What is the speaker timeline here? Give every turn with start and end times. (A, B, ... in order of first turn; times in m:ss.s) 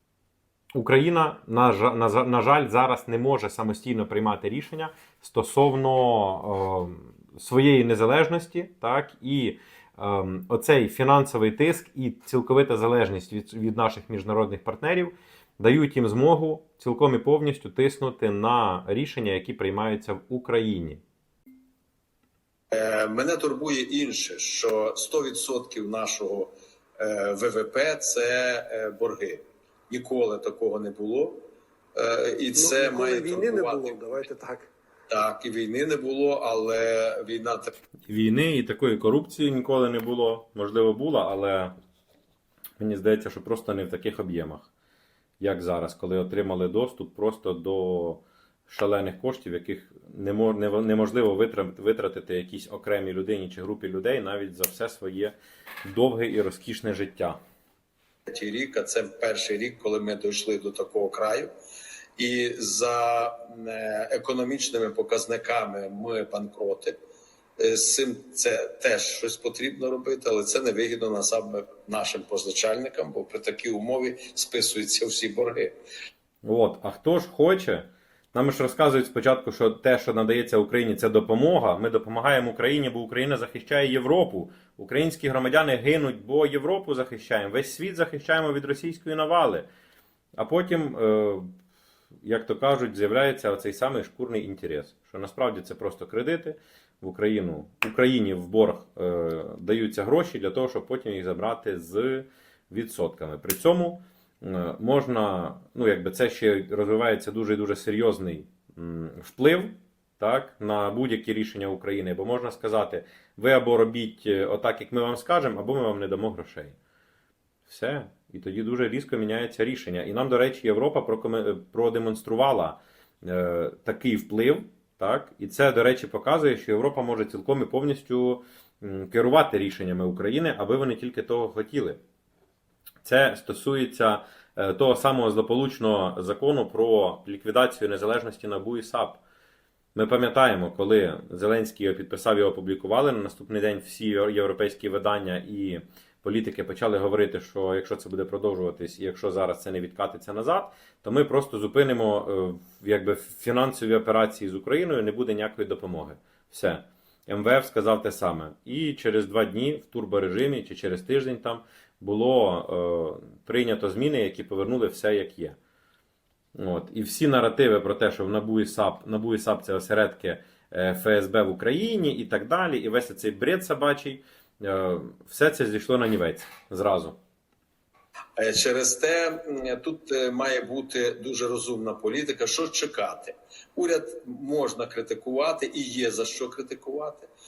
0:00.7-0:21.0 A
0:22.7-0:34.2 B
0:32.6-0:34.7 C
0:35.1-0:37.7 B
0:38.1-0:41.7 A
0:42.8-0:44.7 A
0:45.4-0:55.4 A
0:55.9-0:57.4 A
0:58.3-1:01.5 B
1:02.2-1:07.0 B
1:07.6-1:15.7 B
1:16.4-1:29.7 A
1:30.4-1:31.5 A
1:32.2-1:56.8 A
1:57.7-2:12.0 A
2:13.0-2:19.2 A
2:20.0-2:45.6 A
2:46.6-2:57.2 A
2:58.4-3:07.3 B